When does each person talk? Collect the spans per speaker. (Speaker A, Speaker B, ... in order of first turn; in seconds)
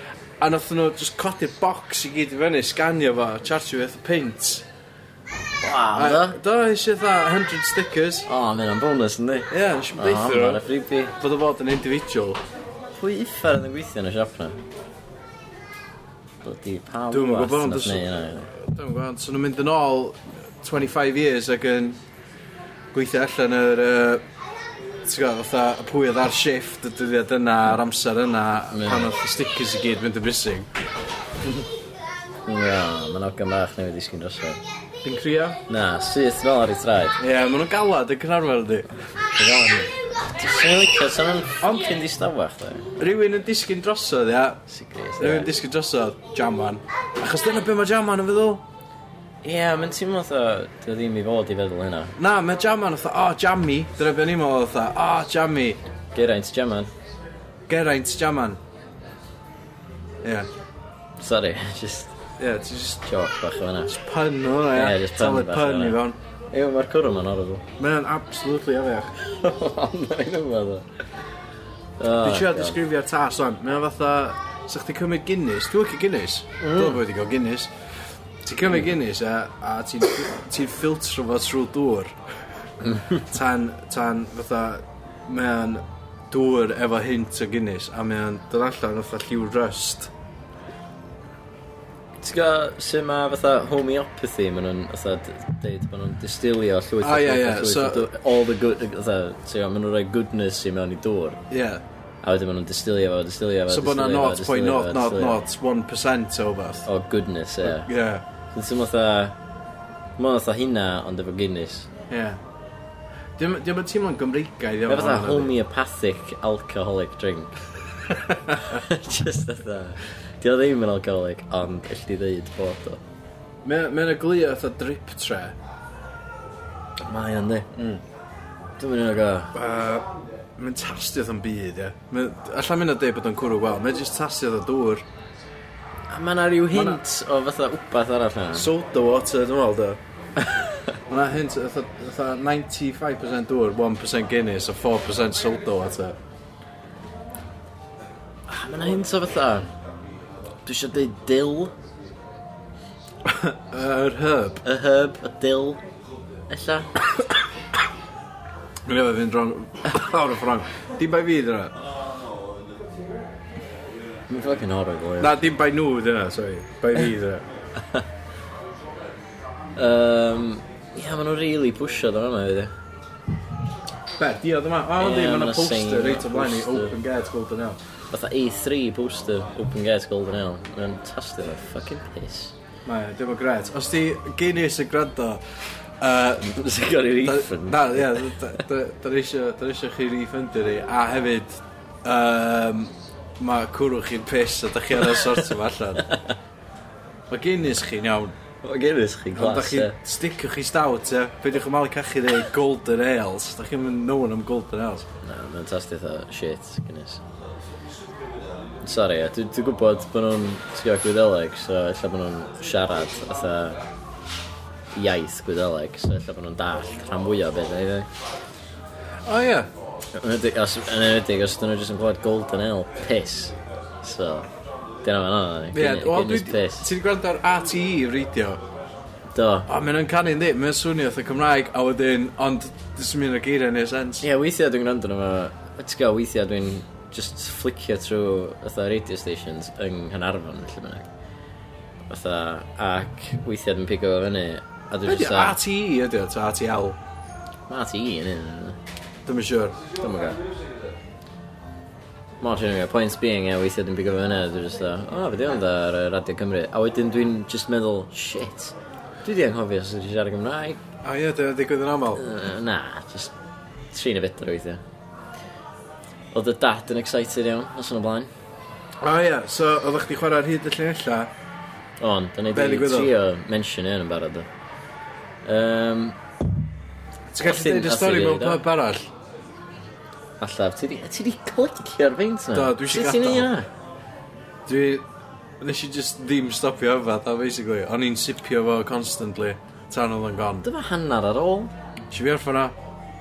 Speaker A: 0.4-4.7, 6.0-8.3, 9.5-10.6, 11.2-12.4, 17.1-22.0, 22.9-24.2, 25.0-30.7, 35.0-35.6, 37.2-38.9, 43.0-44.6, 45.2-48.6, 52.2-55.8, 57.7-58.6, 60.2-60.5, 62.4-63.0, 63.9-66.2, 67.8-69.2, 72.2-77.7, 78.4-82.2, 83.1-90.1, 97.0-98.1, 101.5-101.8, 103.7-106.9, 107.6-108.2, 112.1-112.4, 113.4-115.5, 118.3-118.5, 123.6-125.6, 129.5-135.0, 136.7-137.0, 138.5-140.0, 141.1-146.2, 153.2-154.6, 158.8-161.7, 165.2-167.4, 174.2-177.8, 182.8-185.4, 186.0-186.6, 187.2-196.1, 197.3-198.3, 199.3-205.1, 219.2-219.7, 225.7-228.6, 229.7-234.2, 245.1-247.0, 249.2-249.8, 261.0-262.2, 269.0-271.3, 272.5-273.1, 277.3-279.1, 282.5-283.5, 284.7-285.1, 285.6-290.7, 292.1-292.8
Speaker B: 5.6-6.4, 8.3-11.2, 12.9-14.6, 16.4-18.5, 28.7-29.1, 32.5-34.6, 35.7-37.2, 39.4-43.0, 44.7-45.5, 49.4-52.1, 56.1-56.9, 61.2-62.1, 63.0-64.0, 64.7-66.0, 66.5-67.7, 69.2-70.9, 72.0-72.8, 76.6-77.0, 92.2-101.4, 102.2-105.4, 106.9-107.9, 108.5-109.4, 110.2-111.9, 114.9-117.5, 118.6-123.0, 127.1-127.7, 128.8-129.6, 136.1-138.7, 148.5-149.7, 150.7-151.7, 154.6-155.8, 156.5-156.9, 164.3-165.3, 169.8-172.7, 175.0-176.9, 178.1-182.5, 186.4-188.4, 196.0-196.3, 198.6-200.0, 205.2-207.2, 208.8-213.8, 214.9-218.1, 220.2-224.5, 225.0-226.9, 229.3-229.7, 234.2-241.1, 242.1-245.6, 247.7-248.8, 250.0-250.4, 252.4-260.8, 262.1-263.3, 263.9-264.8, 266.3-268.3, 272.0-274.5, 275.4-276.2, 277.4-278.6, 280.4-283.7, 290.6-291.7